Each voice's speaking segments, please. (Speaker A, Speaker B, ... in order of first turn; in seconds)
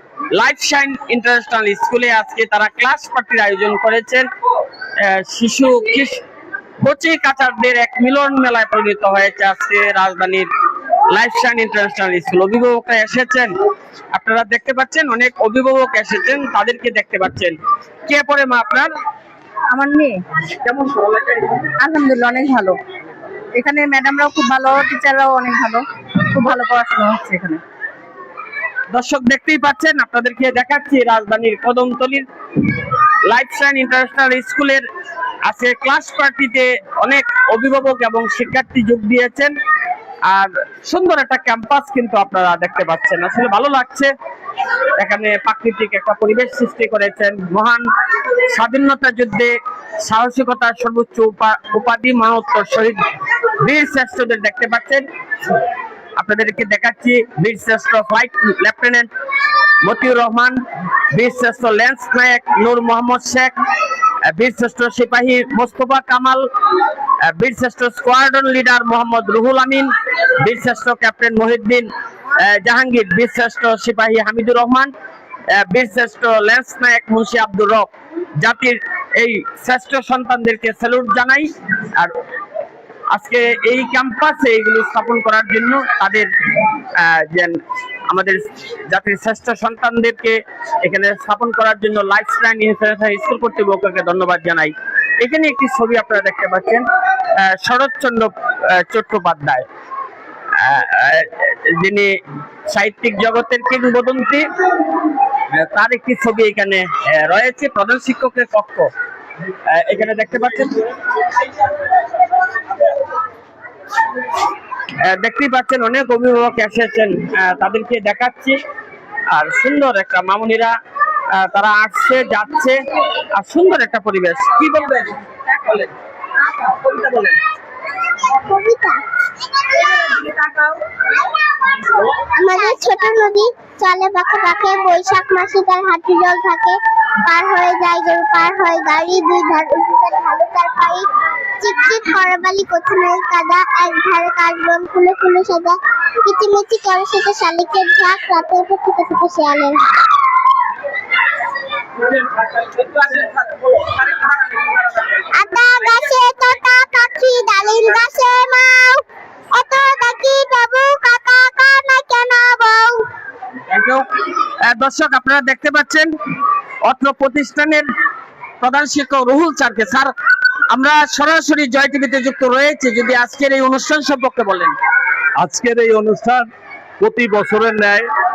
Speaker A: 0.3-4.3, 5.0-6.2, 6.8-10.5, 11.1-13.5, 14.1-17.6, 18.1-18.9, 20.4-21.6, 28.9-32.2, 33.3-34.8, 35.5-39.5, 40.3-44.1, 45.0-47.9, 48.5-53.0, 53.6-55.0, 56.1-59.1, 59.8-60.6, 61.1-63.5, 64.3-66.5, 67.2-74.9, 75.6-82.1, 83.1-86.3, 87.0-96.9, 97.4-99.7, 100.6-102.1, 102.7-104.5, 105.5-108.9, 109.7-110.9, 115.0-118.6, 119.3-120.7, 121.3-122.8, 123.3-125.9, 126.5-127.4, 152.1-155.2, 163.7-164.0, 164.7-166.1, 166.8-167.8, 168.6-170.1, 170.7-174.7
Speaker B: 19.7-20.1, 21.8-22.8, 23.6-27.6
Speaker C: 128.3-129.0, 132.3-141.1, 141.6-149.9, 155.3-159.0, 159.5-163.0
Speaker D: 175.4-176.5, 177.0-178.1